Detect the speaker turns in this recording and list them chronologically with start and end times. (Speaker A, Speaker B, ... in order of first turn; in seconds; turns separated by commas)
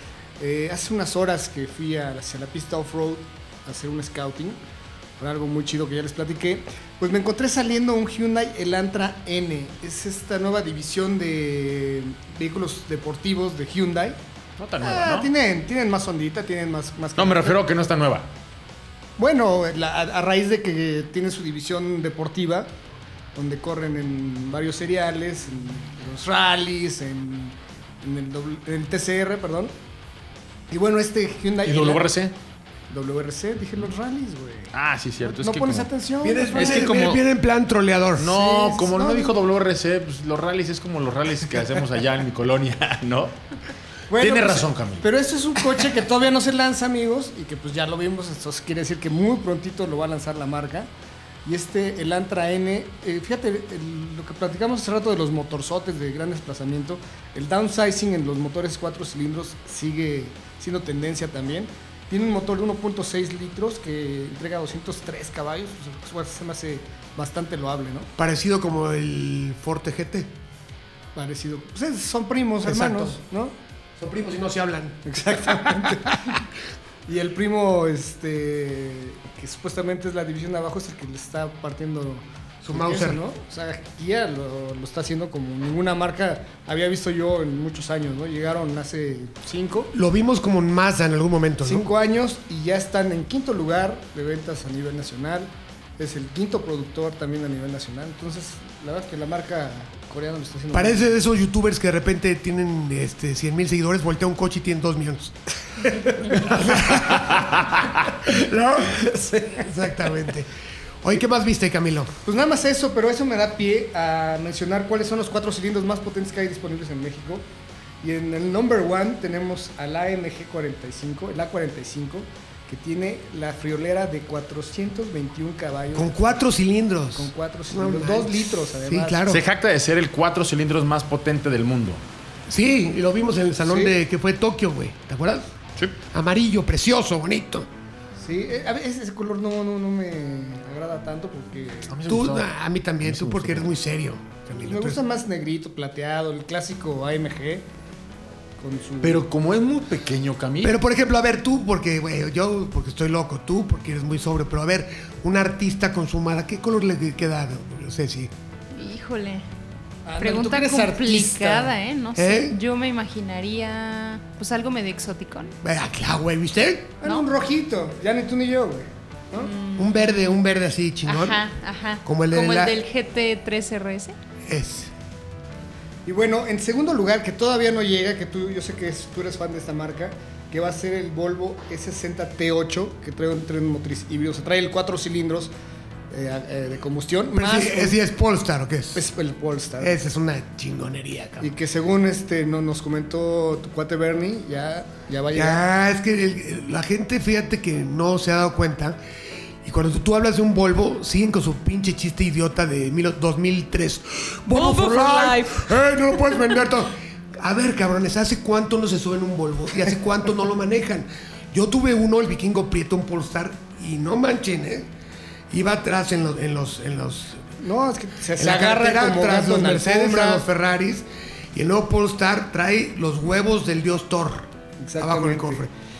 Speaker A: 0.4-4.6, Speaker A: 5.2-14.2, Speaker B: 14.6-15.3, Speaker A: 14.8-17.6, Speaker B: 17.1-18.3, Speaker A: 19.2-22.7, Speaker A: 23.3-29.7, Speaker A: 30.7-32.1, Speaker B: 31.6-32.3, Speaker A: 32.9-36.9, Speaker B: 34.7-35.9, Speaker C: 36.2-38.3, Speaker B: 36.5-37.2, Speaker B: 38.2-43.4, Speaker A: 38.2-39.3, Speaker A: 44.1-50.9, Speaker B: 44.2-45.0, Speaker A: 51.4-68.1, Speaker C: 68.2-70.3, Speaker A: 71.1-73.5, Speaker C: 72.6-73.2, Speaker C: 74.0-76.0, Speaker A: 75.0-76.3, Speaker A: 77.0-89.9, Speaker C: 82.6-83.2, Speaker C: 89.9-91.9, Speaker A: 91.6-101.1, Speaker C: 100.7-105.3, Speaker C: 106.2-107.3, Speaker B: 106.9-107.7, Speaker C: 109.6-110.5, Speaker C: 111.0-112.1, Speaker A: 112.2-117.5, Speaker A: 118.0-126.3, Speaker C: 125.9-129.4, Speaker A: 127.2-129.2, Speaker B: 129.3-132.0, Speaker C: 132.5-135.5, Speaker A: 133.6-133.9, Speaker C: 136.1-137.7, Speaker A: 138.2-141.9, Speaker B: 141.9-142.5, Speaker C: 142.1-145.0, Speaker B: 143.0-143.7, Speaker A: 144.6-147.7, Speaker A: 148.6-149.2, Speaker B: 149.0-150.8, Speaker C: 150.6-158.3, Speaker D: 158.7-159.4, Speaker A: 160.0-161.8, Speaker D: 160.2-165.5, Speaker C: 162.1-162.6, Speaker C: 165.6-167.0, Speaker A: 167.0-169.5, Speaker D: 169.4-170.2, Speaker C: 169.8-171.4, Speaker D: 171.1-174.2, Speaker C: 172.0-172.8, Speaker C: 174.5-174.9, Speaker A: 176.0-185.5, Speaker A: 186.1-188.0, Speaker C: 187.3-189.1, Speaker A: 188.9-189.9, Speaker C: 189.8-191.5, Speaker A: 191.4-195.6, Speaker C: 195.3-199.0, Speaker C: 199.6-214.9, Speaker D: 204.5-205.7, Speaker C: 215.5-217.4, Speaker A: 217.6-220.4, Speaker C: 218.4-225.7, Speaker A: 224.8-225.7